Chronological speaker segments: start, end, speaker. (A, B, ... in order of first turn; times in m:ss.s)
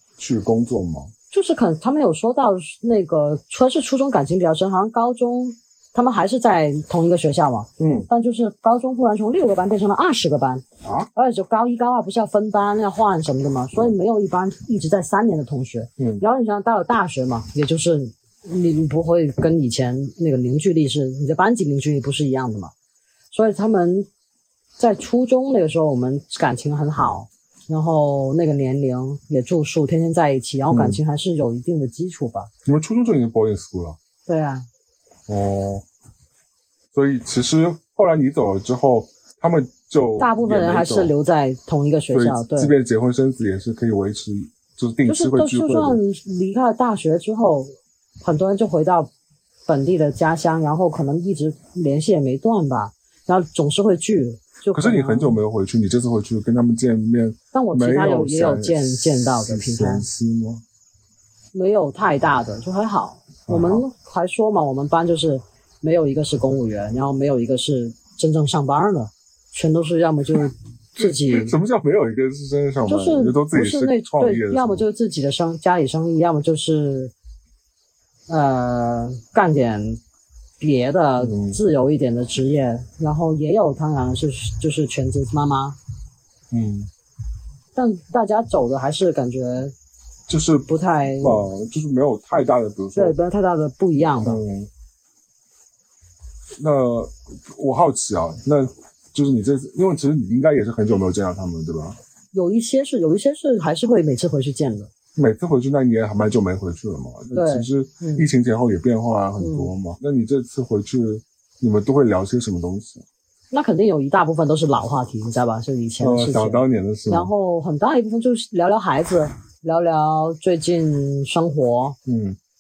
0:00.2-0:01.1 A
0:01.3-0:22.7 B
0:07.8-0:08.1 A
0:16.0-0:16.2 A
0:23.3-0:24.1 B
0:24.8-0:32.5 B
0:30.7-0:31.0 A
0:32.6-0:34.0 A
0:34.3-0:34.7 B
0:35.3-0:35.8 A
0:36.9-0:41.1 A
0:40.2-0:42.7 B
0:42.1-0:46.0 A
0:45.1-0:49.1 B
0:49.7-0:55.4 B
0:54.7-1:00.6 A
0:57.5-1:00.1 B
1:01.5-1:11.6 B
1:03.5-1:03.8 A
1:11.0-1:14.9 A
1:12.9-1:17.1 B
1:18.3-1:20.0 B
1:20.6-1:25.8 B
1:21.2-1:21.6 A
1:26.5-1:26.9 A
1:27.8-1:29.7 B
1:30.3-1:33.2 A
1:30.7-1:31.5 B
1:33.0-1:34.4 B
1:34.0-1:34.7 A
1:36.6-1:42.0 A
1:42.3-1:44.9 B
1:45.2-1:53.0 A
1:47.3-1:48.3 B
1:49.4-1:49.7 B
1:53.5-2:02.0 B
1:56.0-1:57.3 A
2:02.1-2:02.4 A